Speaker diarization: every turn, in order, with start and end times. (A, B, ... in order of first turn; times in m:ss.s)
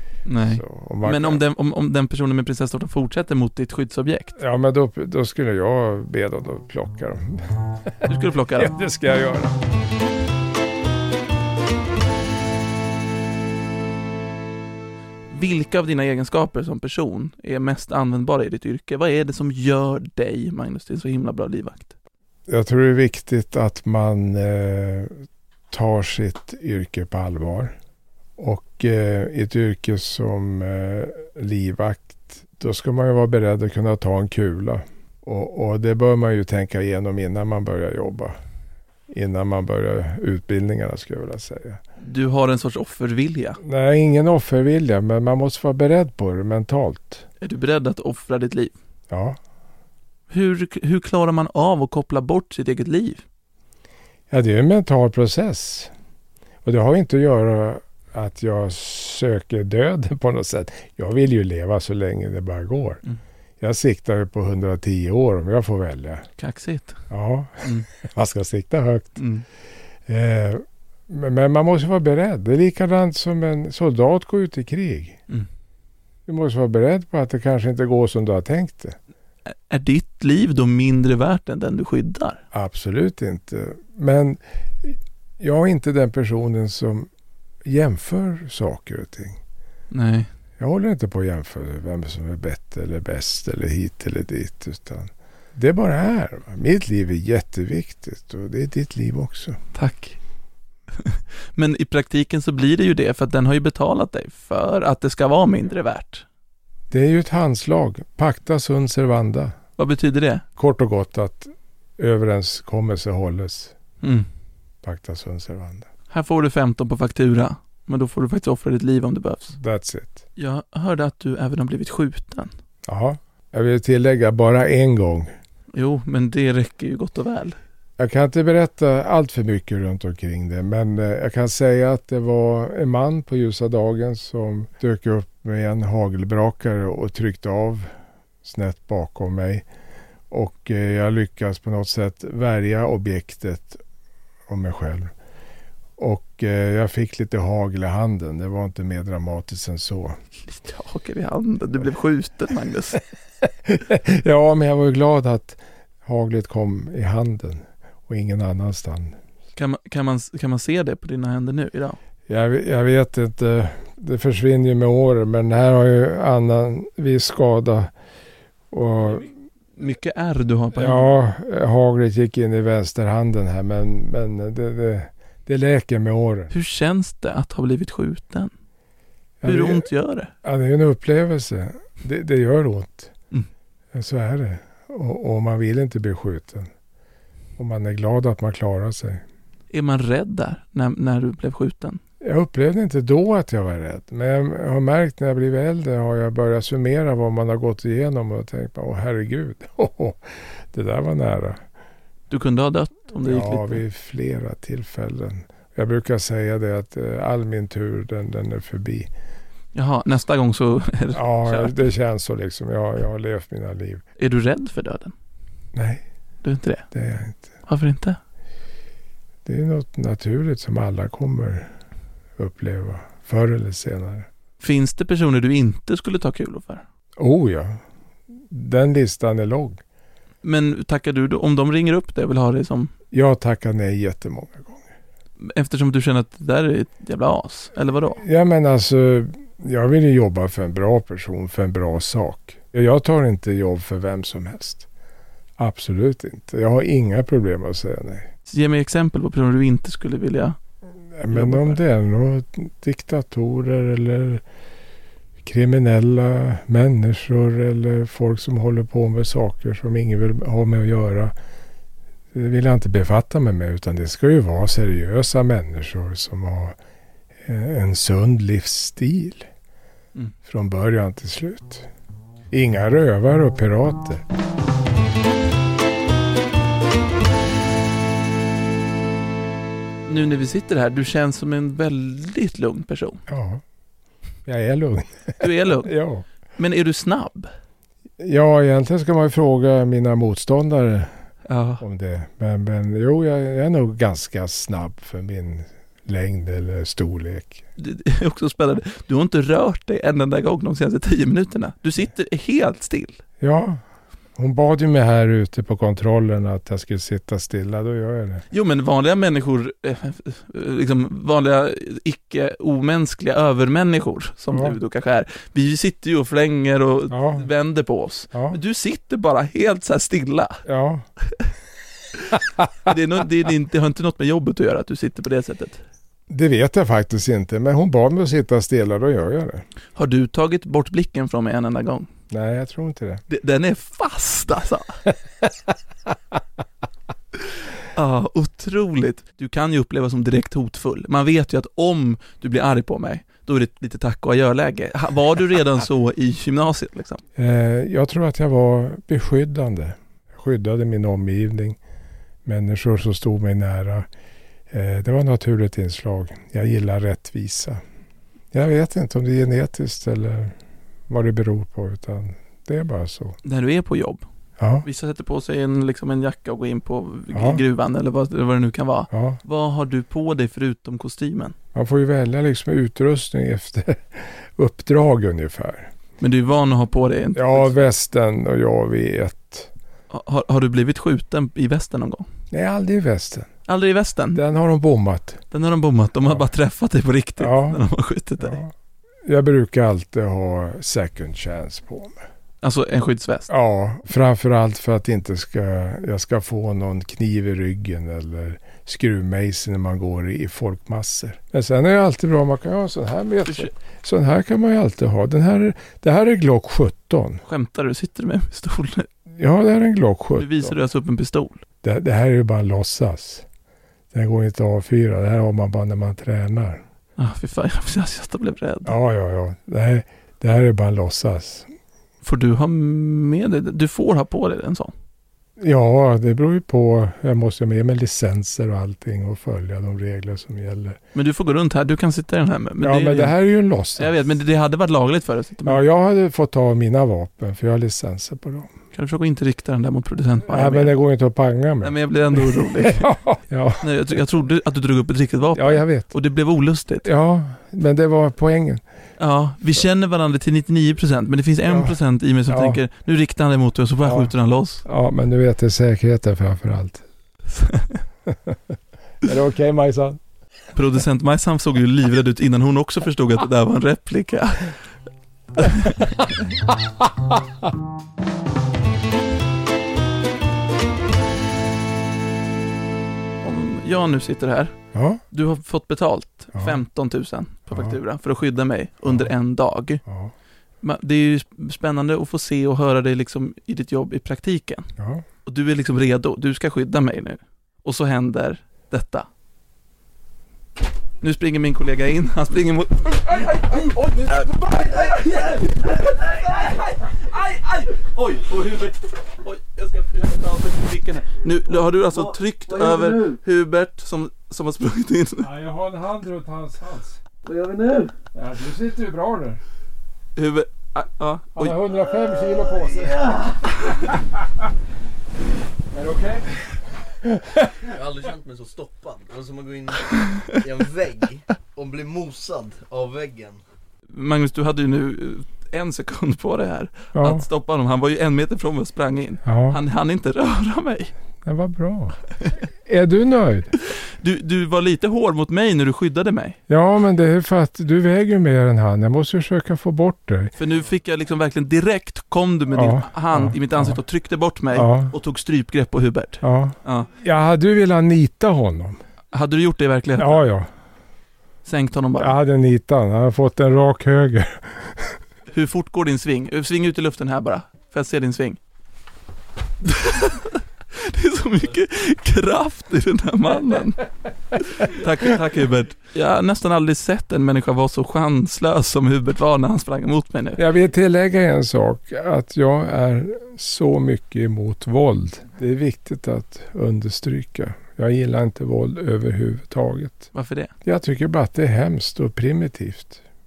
0:00.3-0:04.4 A
0:00.4-0:01.4 B
0:04.4-0:07.4 B
0:08.0-0:09.6 B
0:08.0-0:08.7 A
0:15.3-0:21.9 A
0:22.5-0:27.7 B
0:28.4-0:38.4 B
0:39.1-0:41.8 B
0:42.0-0:43.6 A
0:43.6-0:47.2 B
0:47.4-0:48.7 A
0:49.1-0:49.4 B
0:50.3-0:53.2 A
0:54.3-0:55.9 B
0:56.6-1:03.0 B
1:03.6-1:06.2 B
1:06.4-1:07.0 A
1:07.1-1:09.2 B
1:07.6-1:07.9 A
1:09.2-1:09.4 A
1:10.0-1:15.2 B
1:16.3-1:19.0 B
1:19.7-1:22.4 A
1:22.5-1:27.1 B
1:27.6-1:29.4 B
1:29.9-1:30.3 A
1:30.6-1:39.6 B
1:39.7-1:40.2 A
1:41.0-1:46.2 A
1:46.9-1:49.6 B
1:49.8-1:50.4 A
1:50.6-1:53.7 B
1:54.0-1:54.3 A
1:54.8-1:55.9 B
1:56.1-1:59.6 A
1:59.6-2:00.2 B
2:00.4-2:02.5 A
2:02.8-2:05.3 B
2:05.7-2:07.6 A
2:08.0-2:17.9 B
2:18.4-2:19.6 B
2:20.3-2:23.8 B
2:24.5-2:25.1 B
2:26.0-2:30.2 B
2:30.4-2:33.0 A
2:33.6-2:39.2 B
2:39.6-2:42.0 A
2:42.3-2:47.9 B
2:48.7-2:49.2 B
2:49.0-2:51.1 A
2:50.7-2:56.5 B
2:56.5-2:58.5 A
2:59.4-2:59.9 B
2:59.4-3:00.3 A
3:00.4-3:03.1 B
3:03.9-3:06.7 B
3:07.6-3:09.2 B
3:09.7-3:12.0 A
3:12.2-3:21.6 B
3:22.3-3:23.8 A
3:23.2-3:29.1 B
3:29.7-3:31.8 A
3:31.1-3:34.0 B
3:34.2-3:35.1 A
3:35.7-3:36.0 B
3:36.4-3:36.8 A
3:36.9-3:37.5 B
3:37.7-3:38.2 A
3:39.4-3:41.7 B
3:42.4-3:44.3 B
3:44.6-3:46.8 A
3:47.2-3:47.8 B
3:48.5-3:49.8 B
3:50.4-3:52.9 A
3:53.1-3:54.9 B
3:55.4-3:58.2 A
3:58.1-4:04.9 B
4:05.6-4:08.3 B
4:08.5-4:10.6 A
4:11.1-4:14.4 B
4:11.3-4:11.8 A
4:15.4-4:21.3 B
4:22.3-4:26.8 B
4:27.4-4:29.5 B
4:30.4-4:31.9 B
4:32.5-4:34.2 B
4:40.0-4:43.2 A
4:43.3-4:43.6 B
4:44.4-4:46.2 B
4:45.4-4:45.9 A
4:46.6-4:47.5 A
4:48.2-4:51.1 B
4:51.5-4:51.8 A
4:51.8-4:57.6 B
4:57.8-5:03.2 A
5:03.4-5:03.8 B
5:04.4-5:08.4 B
5:08.5-5:20.6 A
5:14.5-5:14.8 B
5:17.1-5:17.5 B
5:18.3-5:18.6 B
5:20.6-5:21.0 B
5:22.2-5:25.8 A
5:26.3-5:29.6 B
5:30.0-5:32.1 A
5:32.3-5:33.2 B
5:33.3-5:35.0 A
5:37.9-5:47.2 A
5:47.4-5:51.8 B
5:52.4-5:54.1 B
5:54.7-5:57.8 B
5:58.5-6:00.6 B
6:01.1-6:03.4 B
6:03.4-6:04.2 A
6:04.6-6:04.8 B
6:04.8-6:11.5 A
6:07.3-6:07.6 B
6:09.1-6:09.4 B
6:11.7-6:15.9 B
6:16.2-6:17.7 A
6:17.3-6:19.7 B
6:20.1-6:22.3 A
6:22.5-6:23.5 B
6:23.7-6:24.4 A
6:24.3-6:25.4 B
6:25.5-6:28.6 A
6:27.4-6:27.8 B
6:28.4-6:28.7 B
6:29.2-6:32.2 B
6:32.6-6:33.5 A
6:33.5-6:47.4 B
6:43.4-6:43.7 A
6:47.5-6:49.1 A
6:49.3-6:50.8 B
6:50.4-6:51.6 A
6:51.8-6:53.4 B
6:54.1-6:56.8 B
6:57.2-6:58.9 A
6:58.8-7:01.7 B
7:02.2-7:04.9 A
7:05.6-7:11.0 B
7:11.1-7:13.3 A
7:12.8-7:14.1 B
7:14.0-7:15.8 A
7:15.6-7:18.7 B
7:18.9-7:20.9 A
7:20.5-7:23.9 B
7:21.8-7:23.1 A
7:23.8-7:27.1 A
7:25.5-7:26.1 B
7:27.0-7:28.8 B
7:29.2-7:34.8 A
7:31.7-7:32.0 B
7:32.5-7:32.8 B
7:34.0-7:34.3 B
7:34.8-7:37.0 B
7:37.5-7:38.0 A
7:38.3-7:38.6 B
7:39.2-7:40.2 B
7:40.7-7:44.8 A
7:45.6-7:46.1 A
7:47.0-7:47.4 B
7:53.4-7:54.8 A
7:54.9-7:55.2 B
7:55.3-8:00.0 A
7:56.5-7:56.8 B
7:57.7-7:58.0 B
8:00.0-8:00.3 B
8:00.8-8:04.9 A
8:05.0-8:05.2 B
8:05.4-8:09.3 A
8:11.2-8:25.5 A
8:25.4-8:27.2 B
8:27.4-8:28.1 A
8:28.3-8:29.6 B
8:30.4-8:31.8 A
8:31.6-8:33.4 B
8:33.0-8:34.1 A
8:35.9-8:36.6 B
8:37.2-8:37.7 B
8:37.8-8:43.6 C
8:44.1-8:51.1 A
8:47.1-8:47.4 B
8:49.4-8:49.8 B
8:51.4-8:52.2 B
8:52.8-8:53.7 B
8:54.2-8:56.6 A
8:56.7-9:00.5 B
9:00.6-9:07.1 A
9:02.7-9:04.0 B
9:04.7-9:05.1 B
9:06.4-9:09.0 B
9:09.3-9:10.4 A
9:10.2-9:10.7 B
9:11.6-9:12.4 A
9:12.2-9:15.2 B
9:15.5-9:18.6 A
9:19.8-9:24.0 A
9:24.6-9:30.6 A
9:30.6-9:40.3 B
9:40.3-9:40.7 A
9:40.8-9:43.2 B